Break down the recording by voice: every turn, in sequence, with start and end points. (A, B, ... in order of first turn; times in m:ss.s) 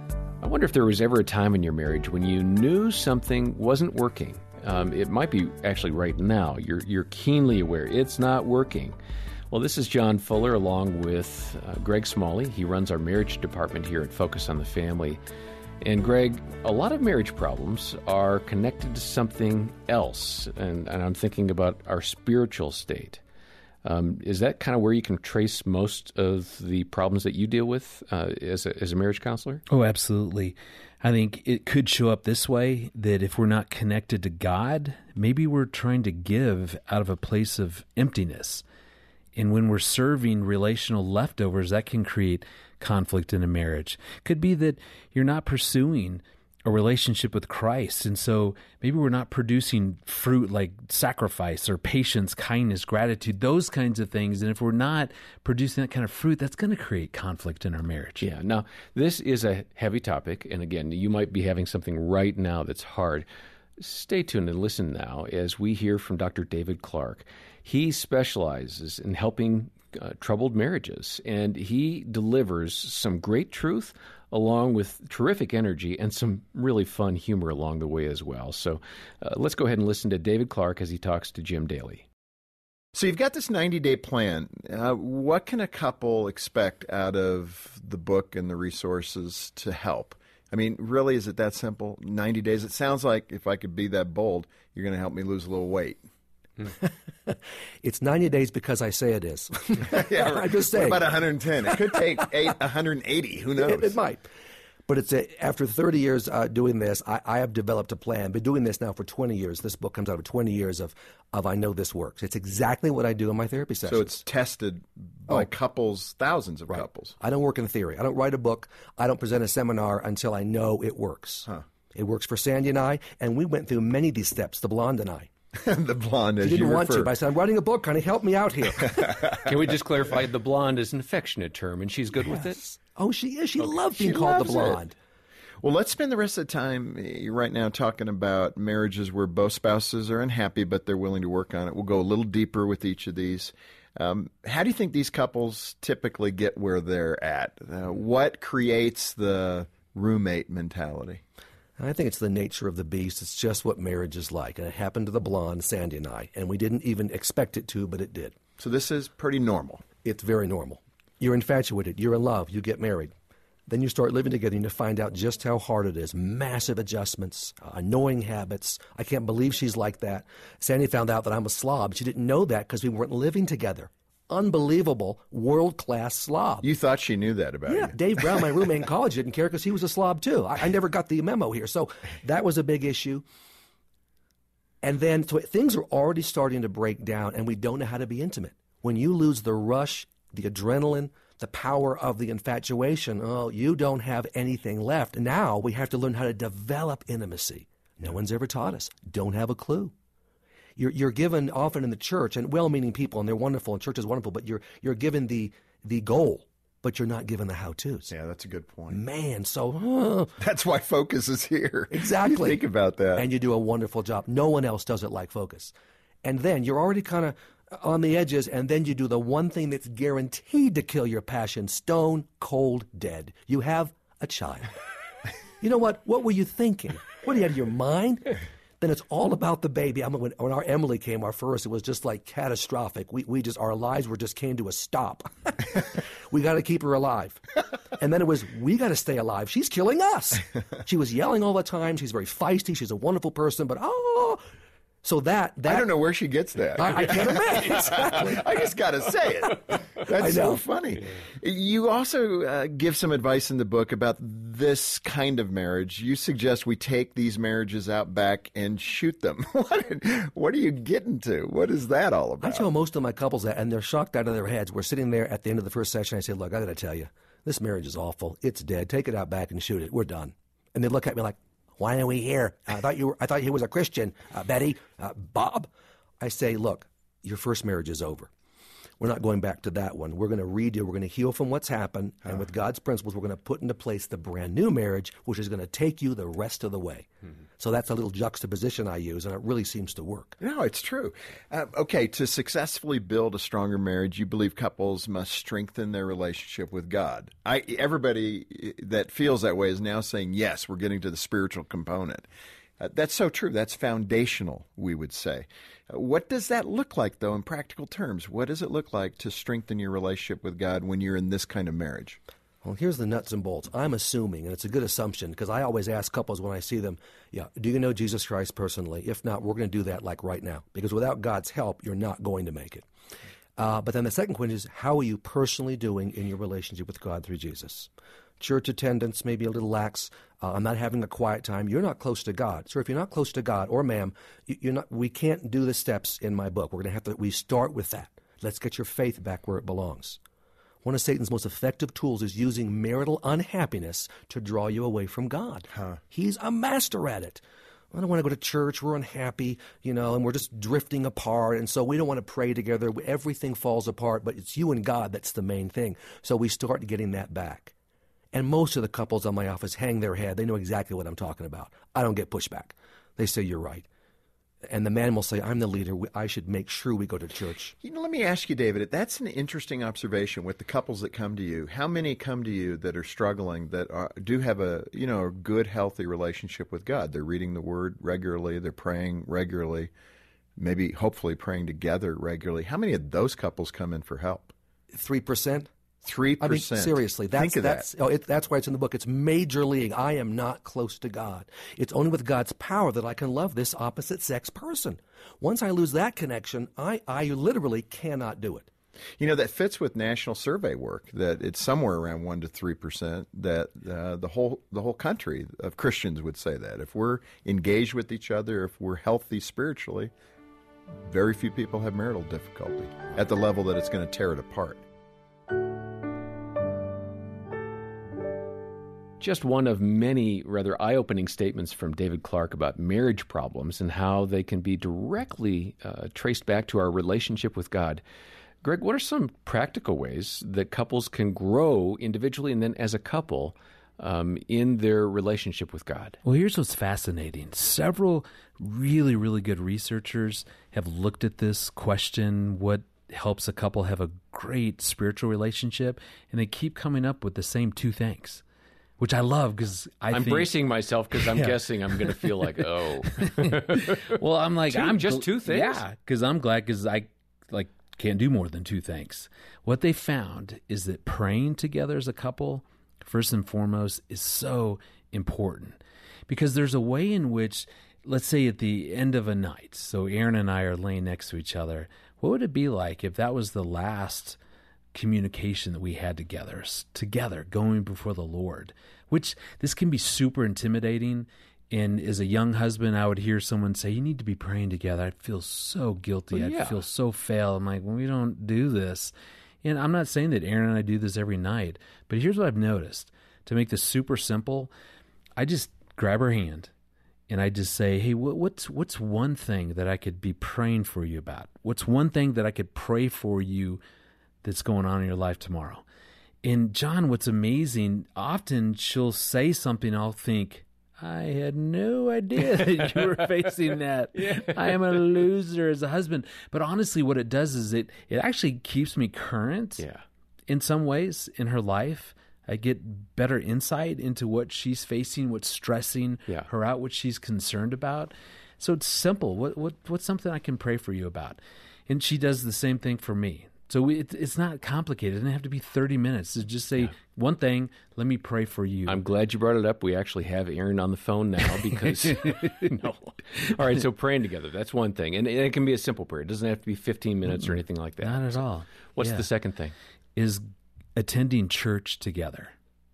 0:00.4-0:09.0 A
0:09.5-0:15.2 A
0:15.8-0:23.2 A
0:23.8-0:29.6 A
0:29.7-0:38.6 B
0:39.3-0:58.2 B
0:58.2-1:03.2 A
1:03.8-1:22.0 A
1:22.9-1:36.0 C
1:36.7-1:41.9 D
1:39.8-1:44.0 C
1:43.6-1:44.3 D
1:44.9-1:54.2 D
1:53.8-1:57.2 C
1:56.7-2:05.3 D
2:05.5-2:07.1 C
2:06.4-2:09.2 D
2:08.8-2:09.4 C
2:09.4-2:12.6 A
2:12.3-2:14.9 D
2:13.9-2:14.8 C
2:15.6-2:31.2 C
2:31.8-2:38.3 D
2:38.6-2:39.8 C
2:40.0-2:43.1 D
2:43.7-2:56.7 D
2:56.6-2:58.0 C
2:57.7-3:03.2 D
3:04.8-3:19.9 D
3:20.8-3:28.1 D
3:28.1-3:29.0 C
3:28.9-3:30.4 D
3:30.4-3:33.2 C
3:31.9-3:32.6 D
3:33.2-3:35.7 D
3:36.2-3:44.7 D
3:45.6-3:57.5 D
3:58.0-4:04.4 D
4:05.0-4:05.9 D
4:05.7-4:22.7 C
4:06.8-4:08.5 D
4:10.1-4:10.6 D
4:22.4-4:38.3 D
4:39.0-4:47.1 D
4:47.6-4:50.4 D
4:50.4-5:02.3 C
5:02.8-5:12.2 C
5:12.6-5:22.8 D
5:23.6-5:27.9 D
5:28.4-5:40.2 D
5:40.8-5:47.4 D
5:47.9-5:57.7 D
5:58.3-6:03.9 D
6:04.7-6:07.7 D
6:07.8-6:19.9 C
6:20.6-6:24.5 C
6:24.9-6:25.7 D
6:26.0-6:27.9 C
6:26.4-6:38.7 D
6:39.2-6:50.1 C
6:51.1-6:54.8 C
6:59.2-7:08.0 A
7:08.6-7:16.2 A
7:16.2-7:28.4 B
7:29.0-7:30.5 B
7:30.1-7:34.2 A
7:31.2-7:32.5 B
7:33.1-7:54.4 B
7:34.7-7:35.8 A
7:54.9-8:14.7 B
8:06.3-8:06.8 A
8:15.4-8:16.7 B
8:17.3-8:23.8 B
8:24.4-8:25.8 B
8:26.4-8:39.8 B
8:34.2-8:34.9 A
8:39.8-8:40.0 A
8:40.5-8:59.0 B
8:58.9-9:09.7 A
9:02.3-9:02.6 B
9:07.4-9:09.2 B
9:10.2-9:12.5 B